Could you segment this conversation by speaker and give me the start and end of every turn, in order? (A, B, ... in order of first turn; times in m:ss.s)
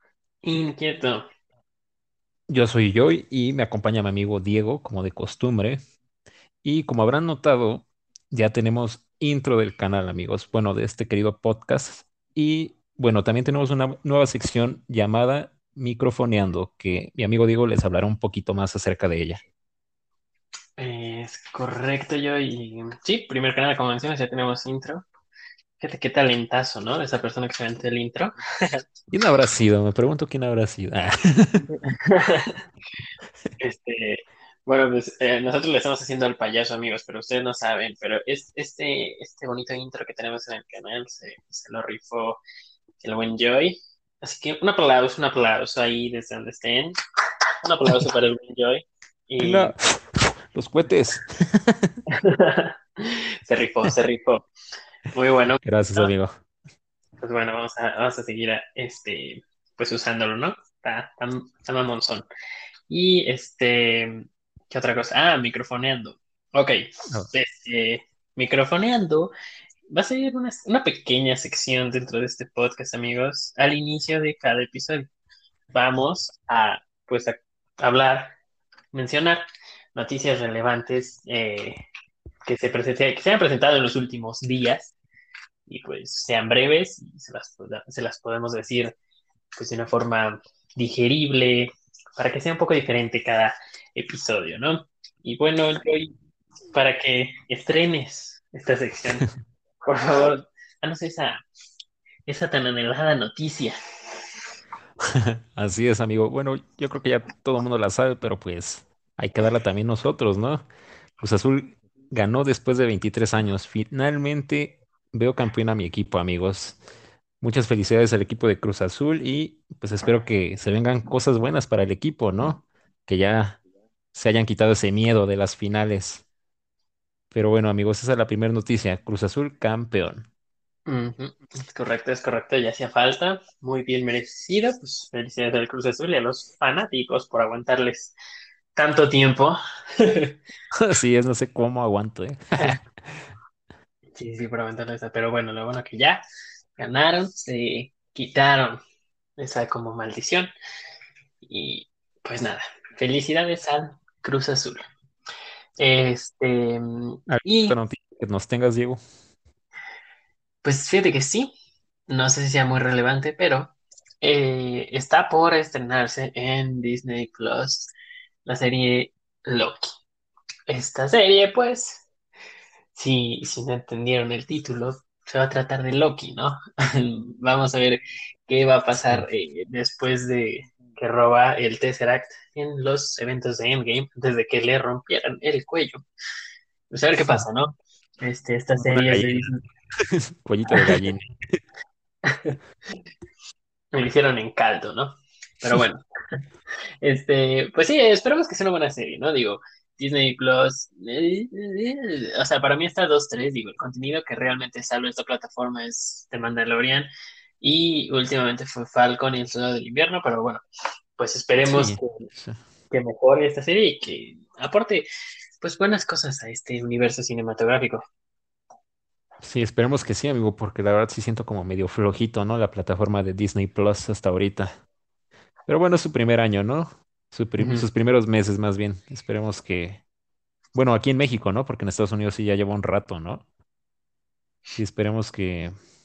0:00.4-0:01.3 A
0:02.5-0:05.8 B
0:06.6-0:19.4 B
0:20.8-0:25.1 A
0:25.8-0:28.8 A
0:29.1-0:31.7 B
0:31.7-0:32.6 A
0:33.6-0:42.4 A
0:43.0-0:46.9 A
0:47.6-0:49.7 A
0:49.4-0:52.0 B
0:52.1-0:54.5 A
0:55.1-0:56.1 A
0:55.6-0:56.3 B
0:57.2-1:02.3 A
1:02.9-1:06.8 A
1:07.3-1:09.3 A
1:09.9-1:15.1 A
1:15.7-1:18.4 A
1:18.9-1:21.8 A
1:22.5-1:24.9 A
1:25.7-1:29.0 A
1:29.6-1:36.1 A
1:36.7-1:39.3 A
1:39.8-1:41.4 A
1:42.3-1:43.8 A
1:45.2-1:50.6 B
1:51.2-1:56.8 B
1:57.4-2:03.6 B
2:04.1-2:06.3 B
2:07.3-2:10.3 B
2:10.9-2:18.2 A
2:18.7-2:20.4 A
2:20.8-2:23.2 B
2:22.6-2:22.8 A
2:24.2-2:26.2 A
2:26.8-2:28.8 A
2:29.4-2:30.5 A
2:31.4-2:34.8 A
2:35.8-2:37.8 A
2:37.3-2:39.0 B
2:40.6-2:41.5 A
2:42.1-2:47.9 A
2:48.5-2:49.9 A
2:50.7-2:52.1 A
2:52.9-3:06.0 A
2:59.0-2:59.3 B
3:06.9-3:09.6 A
3:08.8-3:11.6 B
3:10.7-3:11.0 A
3:12.2-3:12.6 A
3:13.9-3:16.0 A
3:17.0-3:27.1 A
3:27.6-3:30.6 A
3:31.2-3:32.2 A
3:31.6-3:32.6 B
3:32.9-3:35.1 A
3:35.6-3:38.0 A
3:39.4-3:44.8 B
3:45.7-3:50.0 B
3:47.6-3:47.9 A
3:50.8-3:53.5 B
3:54.8-3:55.8 B